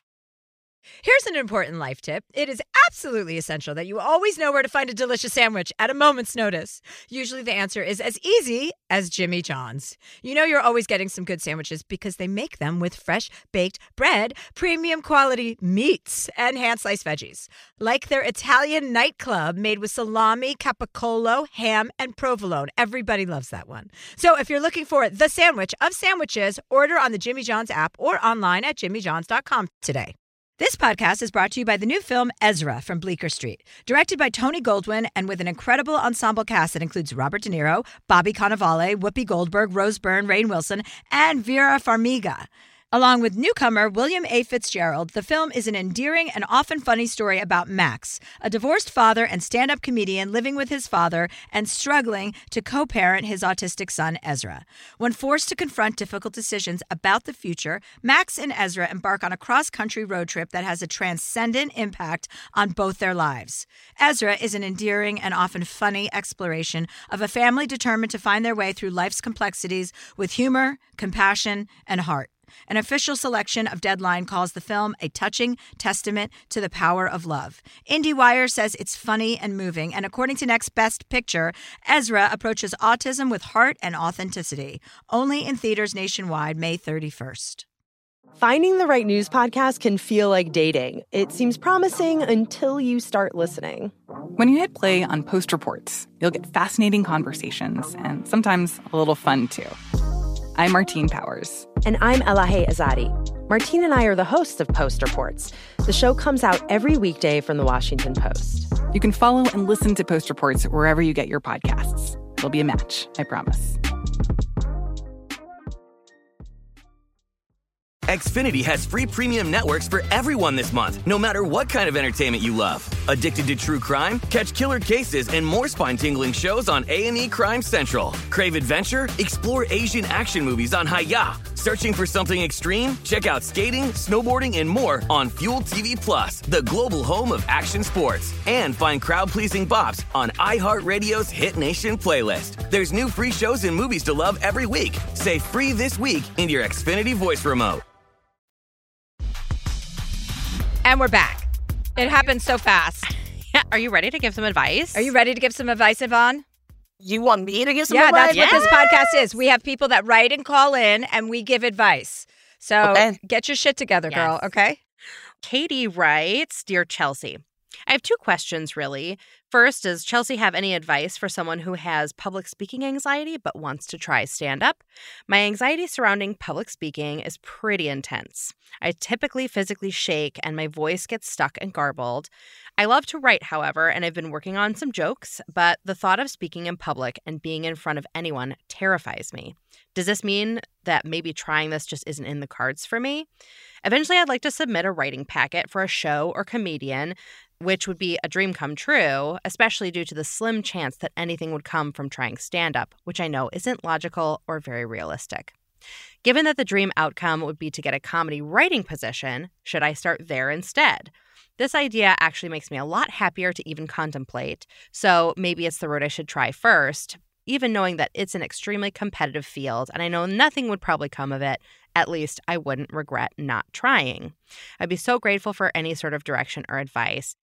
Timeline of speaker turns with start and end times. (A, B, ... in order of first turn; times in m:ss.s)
0:01.0-1:27.6 A
1:28.4-1:33.9 B
1:34.4-1:39.8 C
1:40.5-1:41.7 C
1:41.8-1:48.7 B
1:48.9-1:53.8 C
1:58.1-2:27.8 D
2:30.8-2:33.1 A
2:33.5-2:35.1 E
2:34.9-2:36.4 A
2:37.0-2:38.7 F
2:37.9-2:44.8 A
2:38.3-2:39.2 E
2:42.8-2:43.2 F
2:44.1-2:44.4 E
2:45.4-3:13.3 E
3:13.8-3:25.5 E
3:26.2-3:47.3 E